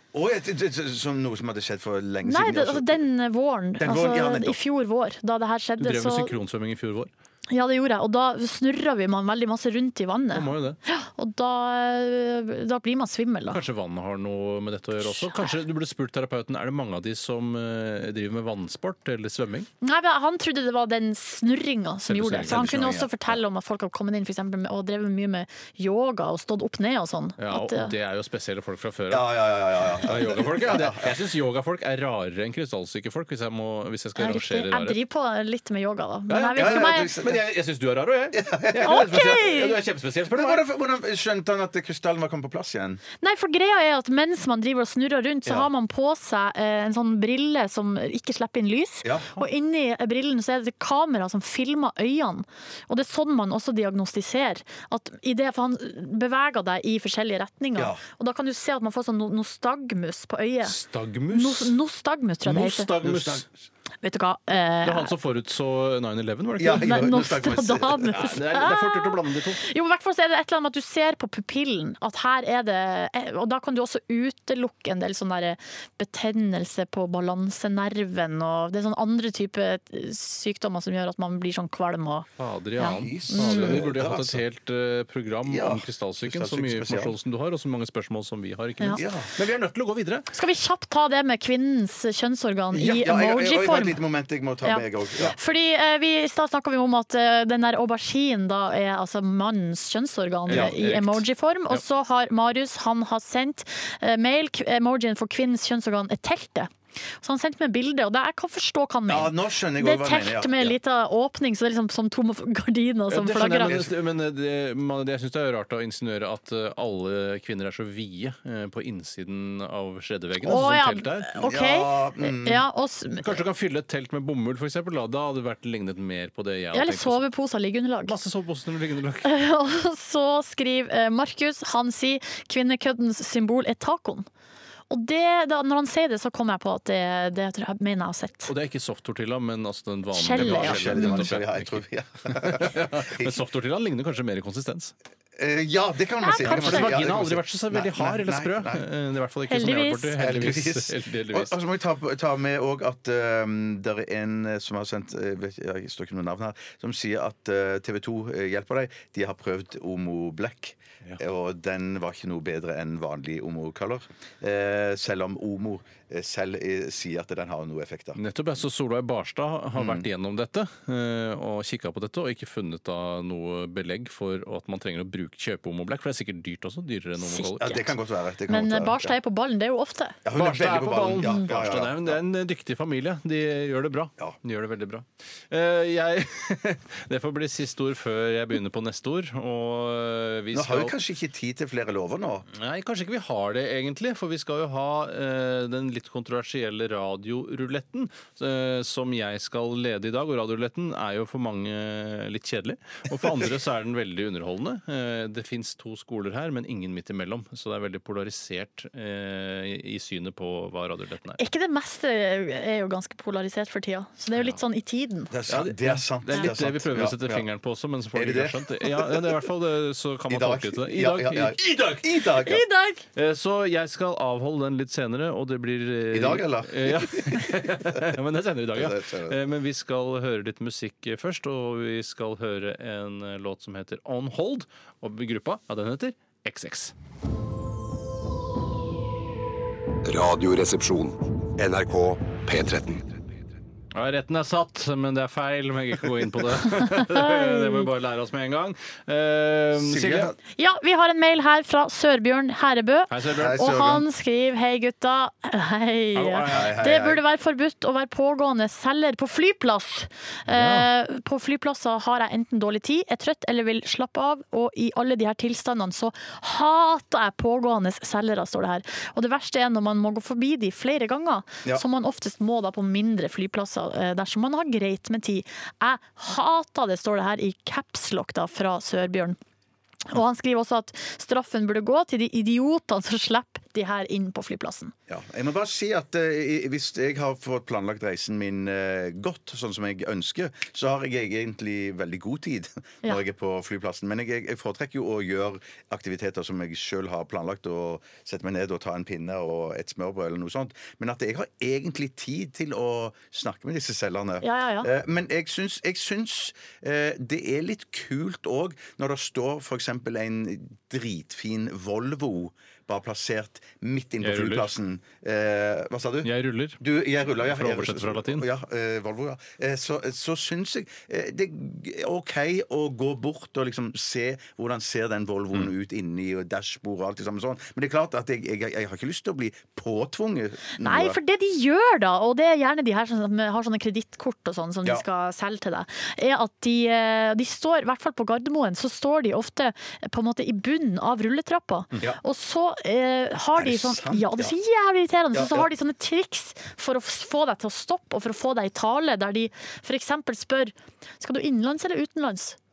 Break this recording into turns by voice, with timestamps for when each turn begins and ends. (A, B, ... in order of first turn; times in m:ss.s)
0:00.1-0:03.0 A
0:02.2-0:06.3 B
0:03.8-0:04.6 A
0:05.8-0:07.1 C
0:07.5-0:13.6 B
0:10.3-0:10.8 C
0:13.5-0:19.7 C
0:15.0-0:15.6 B
0:19.8-0:27.9 B
0:22.0-0:23.1 C
0:22.4-0:23.1 A
0:27.4-0:35.0 C
0:29.1-0:31.1 A
0:34.2-0:37.1 B
0:36.3-0:40.6 C
0:36.6-0:37.4 A
0:38.3-0:39.4 A
0:38.8-0:39.8 B
0:40.3-0:43.0 A
0:43.2-1:00.8 B
0:49.0-0:49.3 A
0:57.8-0:58.0 A
1:00.6-1:01.7 C
1:01.3-1:02.9 B
1:02.4-1:03.4 C
1:03.0-1:03.5 A
1:04.0-1:05.1 B
1:04.8-1:07.1 C
1:06.6-1:08.3 A
1:06.7-1:22.2 B
1:08.1-1:09.6 C
1:22.4-1:30.3 C
1:22.8-1:23.8 B
1:22.8-1:24.4 A
1:25.4-1:27.1 A
1:28.9-1:29.3 A
1:30.3-1:34.0 B
1:32.7-1:35.4 A
1:34.6-1:53.8 B
1:40.5-1:41.8 C
1:40.5-1:40.8 A
1:49.1-1:50.8 A
1:53.1-2:01.3 C
1:53.6-1:53.9 A
2:00.4-2:03.4 B
2:01.4-2:02.6 A
2:03.2-2:07.2 C
2:06.7-2:08.1 B
2:08.0-2:09.3 C
2:09.2-2:14.2 B
2:14.9-2:18.5 B
2:18.5-2:24.9 C
2:20.1-2:21.2 B
2:20.3-2:23.4 A
2:25.4-2:28.8 A
2:26.2-2:27.0 B
2:26.4-2:31.6 C
2:29.5-2:30.1 B
2:30.1-2:48.2 A
2:48.2-2:57.8 C
2:49.8-2:50.1 A
2:57.2-2:57.8 B
2:57.6-2:59.1 A
2:58.5-3:00.2 B
3:00.2-3:02.2 A
3:00.3-3:10.9 C
3:01.2-3:01.5 B
3:10.5-3:12.5 A
3:12.5-3:31.4 C
3:31.4-3:35.3 B
3:35.3-3:37.4 A
3:35.5-3:42.3 C
3:38.1-3:39.5 A
3:40.3-3:42.6 A
3:42.4-3:43.0 B
3:43.1-3:56.9 C
3:46.1-3:48.1 A
3:48.7-3:49.4 A
4:00.0-4:03.2 D
4:03.9-4:10.3 C
4:06.7-4:07.8 B
4:09.7-4:10.4 A
4:10.5-4:39.4 B
4:13.1-4:13.6 C
4:13.3-4:14.0 A
4:16.1-4:16.8 C
4:16.4-4:17.2 A
4:20.5-4:20.9 C
4:40.0-4:44.9 B
4:45.1-5:31.2 A
5:04.4-5:04.9 B
5:14.2-5:14.7 C
5:16.2-5:16.8 C
5:17.4-5:18.4 C
5:30.8-5:52.6 B
5:43.5-5:44.5 A
5:45.3-5:45.7 A